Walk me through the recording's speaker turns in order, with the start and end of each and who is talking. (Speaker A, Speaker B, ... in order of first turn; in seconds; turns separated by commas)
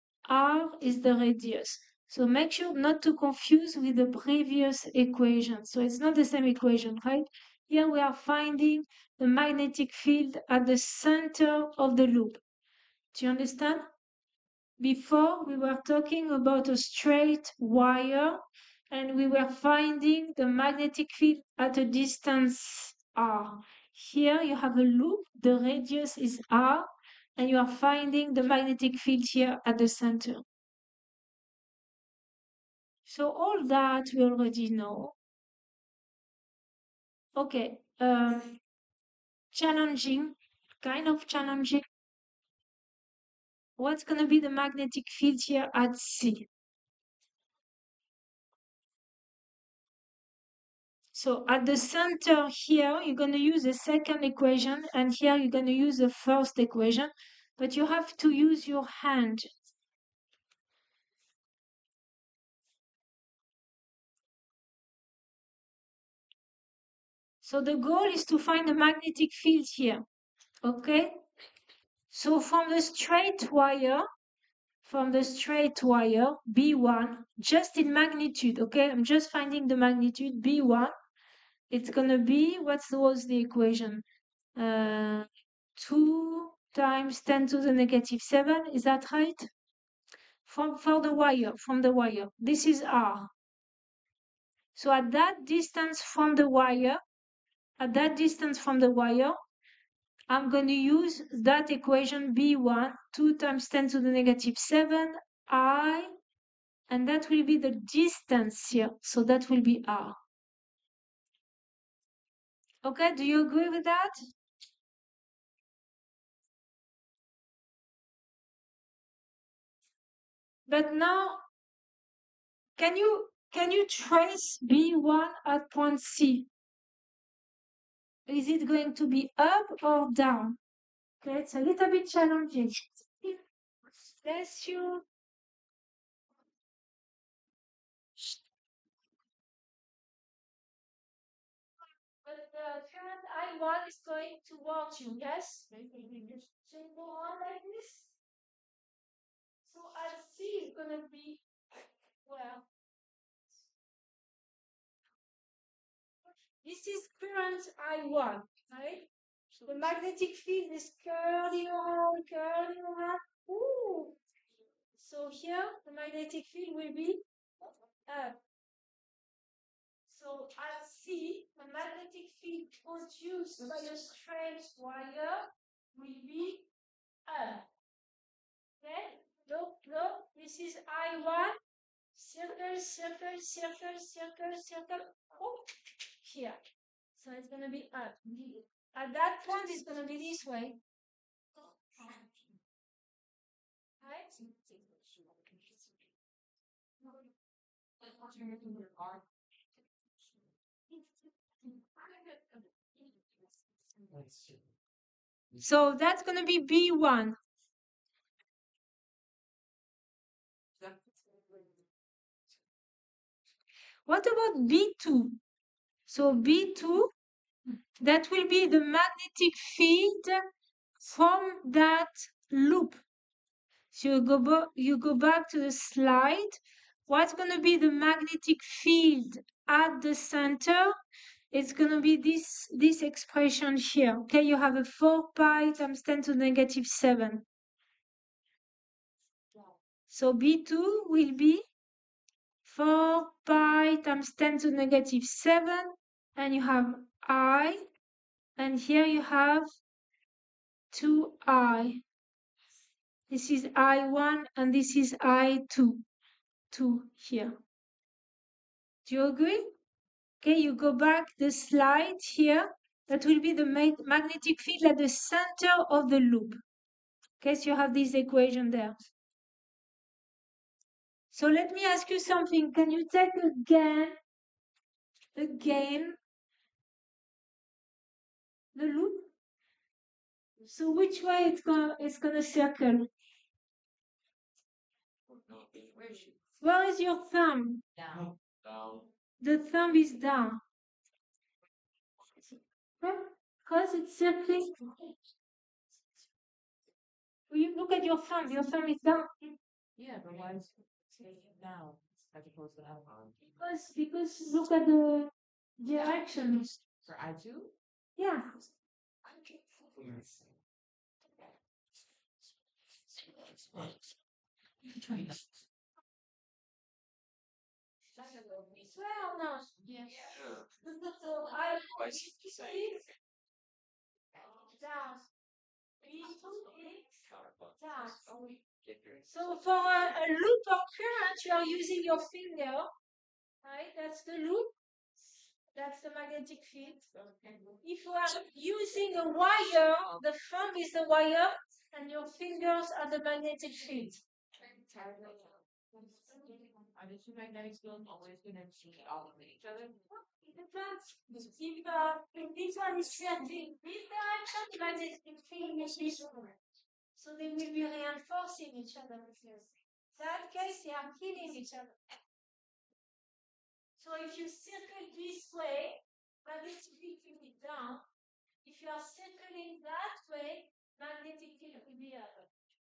Speaker A: 0.2-12.4, Speaker A: 13.1-13.9, Speaker A: 14.8-30.4, Speaker A: 33.0-35.1, Speaker A: 37.3-38.6, Speaker A: 39.5-41.8, Speaker A: 43.8-46.5, Speaker A: 51.1-59.5, Speaker A: 67.4-70.0, Speaker A: 70.6-71.2, Speaker A: 72.1-74.0, Speaker A: 74.8-80.9, Speaker A: 81.7-84.0, Speaker A: 84.5-89.5, Speaker A: 90.4-93.3, Speaker A: 94.7-97.0, Speaker A: 97.8-99.4, Speaker A: 100.3-106.1, Speaker A: 106.9-110.2, Speaker A: 112.8-114.1, Speaker A: 120.7-121.4, Speaker A: 122.8-126.5, Speaker A: 128.3-130.6, Speaker A: 131.2-133.4, Speaker A: 134.0-135.0, Speaker A: 142.2-145.7, Speaker B: 145.7-146.5, Speaker A: 146.6-148.1, Speaker A: 149.6-151.4, Speaker A: 152.2-152.7, Speaker A: 156.6-159.1, Speaker A: 159.6-164.2, Speaker A: 165.0-167.2, Speaker A: 168.1-168.3, Speaker A: 170.1-176.6, Speaker A: 177.3-177.6, Speaker A: 178.8-181.6, Speaker A: 182.1-185.7, Speaker A: 186.2-186.6, Speaker A: 187.2-190.8, Speaker A: 194.0-194.3, Speaker B: 194.4-196.1, Speaker B: 198.0-199.2, Speaker B: 201.6-204.3, Speaker C: 204.1-204.6, Speaker A: 205.6-207.4, Speaker B: 210.8-211.8, Speaker A: 214.1-215.4, Speaker A: 216.1-217.1, Speaker A: 218.0-220.4, Speaker A: 221.0-223.0, Speaker A: 223.9-230.9, Speaker A: 231.5-237.4, Speaker A: 240.1-241.6, Speaker A: 242.6-247.8, Speaker A: 248.6-249.7, Speaker A: 250.9-252.0, Speaker A: 253.3-256.0, Speaker A: 256.7-257.6, Speaker A: 259.0-259.7, Speaker A: 260.4-266.6, Speaker A: 267.4-268.9, Speaker A: 271.3-274.1, Speaker A: 275.3-276.2, Speaker A: 278.7-279.3, Speaker A: 280.6-283.1, Speaker C: 285.4-286.3, Speaker B: 285.7-286.3, Speaker A: 286.6-287.8, Speaker B: 288.0-288.2, Speaker C: 288.1-289.1, Speaker A: 289.4-290.6, Speaker A: 293.0-294.9, Speaker A: 297.5-299.5, Speaker B: 300.0-303.6, Speaker A: 303.6-306.8, Speaker B: 307.0-307.7, Speaker A: 308.2-308.4, Speaker B: 309.2-310.2, Speaker C: 310.0-310.4, Speaker B: 315.0-315.3, Speaker B: 318.1-318.9, Speaker A: 318.8-319.8, Speaker B: 319.8-320.5, Speaker C: 320.3-320.7, Speaker A: 321.0-323.0, Speaker C: 321.9-322.9, Speaker B: 324.4-324.7, Speaker A: 324.7-325.2, Speaker A: 326.0-327.2, Speaker C: 327.3-327.8, Speaker A: 327.8-328.2, Speaker B: 328.0-328.6, Speaker C: 328.8-329.3, Speaker A: 329.2-332.9, Speaker A: 333.6-334.7, Speaker A: 335.7-337.0, Speaker B: 337.1-337.8, Speaker A: 337.8-344.2, Speaker B: 344.5-350.1, Speaker A: 350.1-356.5, Speaker A: 357.1-362.0, Speaker A: 364.0-368.0, Speaker A: 368.6-372.5